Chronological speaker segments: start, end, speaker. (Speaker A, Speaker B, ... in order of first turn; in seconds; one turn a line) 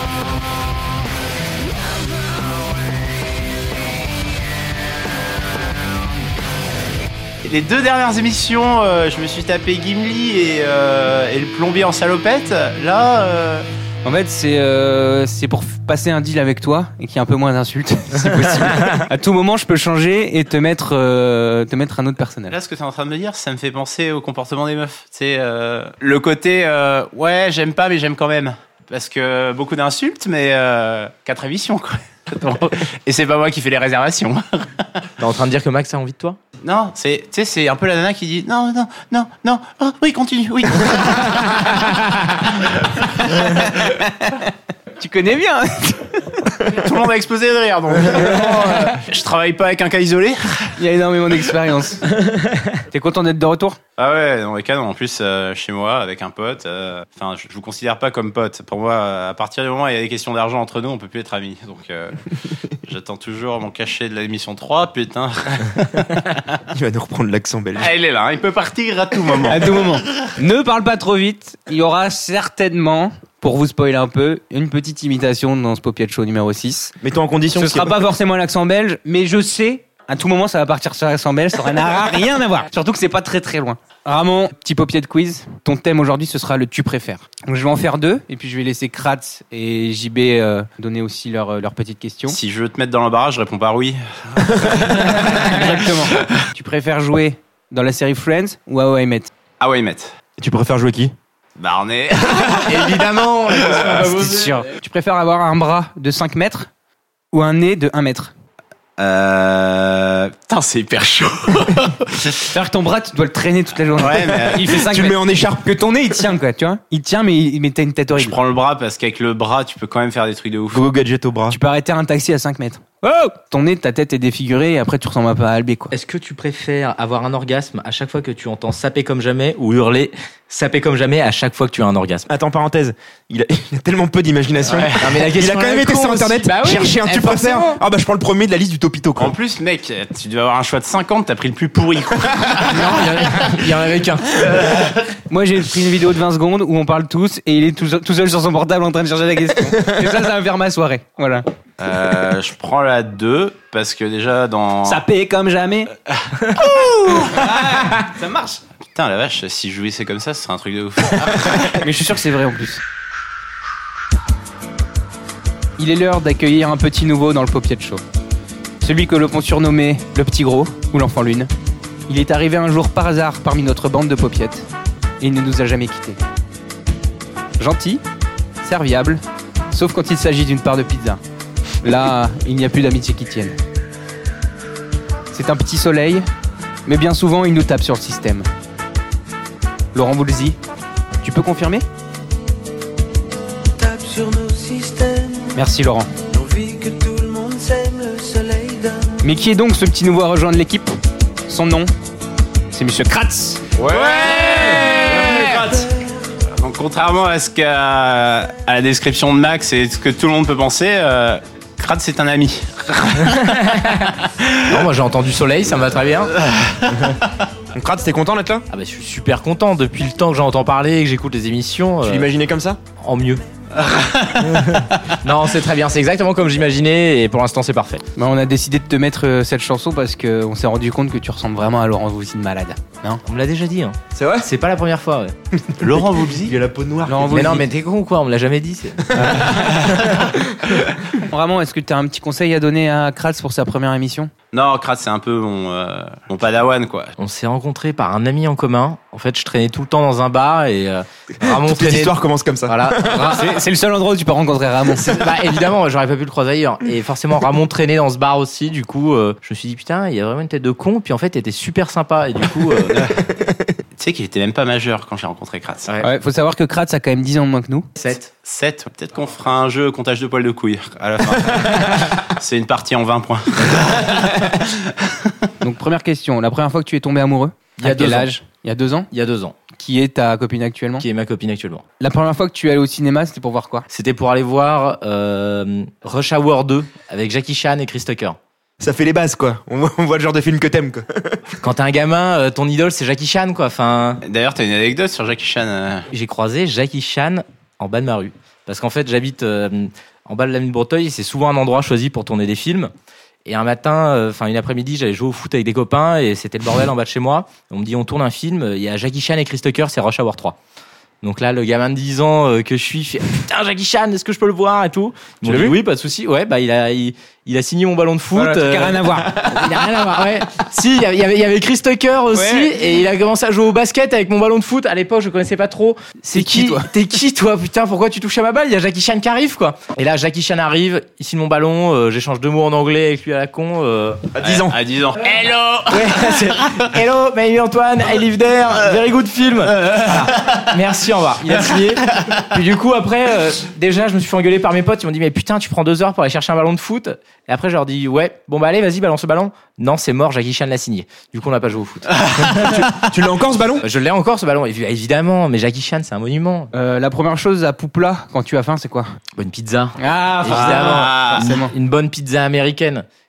Speaker A: 7.4-13.7
Speaker B: 14.0-22.5
Speaker A: 22.5-34.9
Speaker C: 35.2-36.4
Speaker A: 36.6-43.4
Speaker B: 43.5-44.4
Speaker B: 45.0-46.4
Speaker A: 46.7-50.7
Speaker C: 48.1-48.9
Speaker B: 50.8-52.1
Speaker B: 52.9-53.8
Speaker A: 54.0-62.2
Speaker A: 62.8-66.4
Speaker D: 66.7-67.9
Speaker A: 67.8-70.0
Speaker B: 69.5-76.9
Speaker D: 77.0-77.9
Speaker B: 77.5-92.4
Speaker A: 92.3-94.9
Speaker D: 94.6-95.1
Speaker B: 95.2-99.3
Speaker A: 99.6-100.1
Speaker D: 100.4-101.1
Speaker A: 101.6-104.0
Speaker C: 102.3-104.7
Speaker B: 104.1-106.7
Speaker B: 107.3-108.3
Speaker A: 109.0-112.4
Speaker B: 112.5-118.3
Speaker A: 114.0-114.8
Speaker D: 114.5-115.7
Speaker A: 118.2-120.9
Speaker D: 120.7-121.6
Speaker B: 121.5-125.9
Speaker C: 125.9-132.3
Speaker D: 132.3-139.3
Speaker A: 134.6-135.2
Speaker C: 134.9-137.8
Speaker A: 139.2-143.2
Speaker C: 142.6-144.5
Speaker A: 144.4-145.0
Speaker B: 145.3-151.4
Speaker A: 151.8-155.0
Speaker B: 154.8-155.9
Speaker A: 156.1-156.4
Speaker B: 156.5-158.6
Speaker A: 158.9-161.7
Speaker B: 161.3-162.8
Speaker B: 165.8-168.0
Speaker B: 168.8-171.5
Speaker B: 172.1-174.7
Speaker B: 175.2-176.2
Speaker B: 177.6-178.0
Speaker B: 178.6-181.2
Speaker B: 181.8-183.6
Speaker B: 185.3-186.2
Speaker B: 186.8-188.5
Speaker B: 189.9-190.6
Speaker B: 191.2-191.8
Speaker E: 193.8-195.6
Speaker B: 195.5-196.1
Speaker E: 196.3-199.2
Speaker B: 199.2-200.9
Speaker B: 201.5-201.9
Speaker B: 202.7-203.6
Speaker A: 203.8-205.5
Speaker B: 204.4-205.5
Speaker C: 204.6-205.6
Speaker E: 205.7-206.1
Speaker A: 206.5-213.4
Speaker C: 213.2-216.3
Speaker A: 216.4-216.9
Speaker D: 217.7-218.6
Speaker C: 218.7-222.3
Speaker D: 222.0-222.8
Speaker C: 223.0-223.4
Speaker A: 223.8-224.4
Speaker C: 224.3-228.0
Speaker B: 228.2-233.2
Speaker C: 233.2-235.3
Speaker D: 234.2-234.5
Speaker A: 235.8-236.6
Speaker D: 235.8-237.6
Speaker B: 237.1-237.6
Speaker C: 237.3-239.3
Speaker D: 239.2-240.2
Speaker B: 239.2-239.5
Speaker B: 241.2-244.3
Speaker A: 244.5-247.1
Speaker C: 247.2-253.5
Speaker D: 251.4-253.4
Speaker B: 253.2-255.1
Speaker C: 255.0-263.0
Speaker A: 264.0-265.9
Speaker C: 265.9-266.1
Speaker B: 266.0-267.9
Speaker C: 268.0-268.3
Speaker A: 268.4-275.3
Speaker B: 275.6-279.1
Speaker C: 277.8-278.3
Speaker C: 279.1-279.5
Speaker B: 279.8-281.1
Speaker C: 281.0-281.8
Speaker B: 282.0-283.9
Speaker C: 283.9-288.4
Speaker D: 288.8-291.4
Speaker C: 291.6-294.2
Speaker A: 294.2-296.1
Speaker C: 296.1-302.9
Speaker C: 303.4-310.6
Speaker C: 311.2-334.4
Speaker B: 315.5-315.7
Speaker B: 318.3-319.4
Speaker B: 322.3-322.8
Speaker B: 326.3-326.9
Speaker A: 334.4-336.8
Speaker D: 334.4-334.7
Speaker C: 335.9-352.8
Speaker A: 339.7-340.6
Speaker A: 341.7-342.3
Speaker A: 352.1-352.9
Speaker D: 352.4-353.8
Speaker C: 353.8-356.7
Speaker B: 356.7-359.1
Speaker C: 359.4-363.1
Speaker B: 360.0-361.7
Speaker A: 360.5-361.5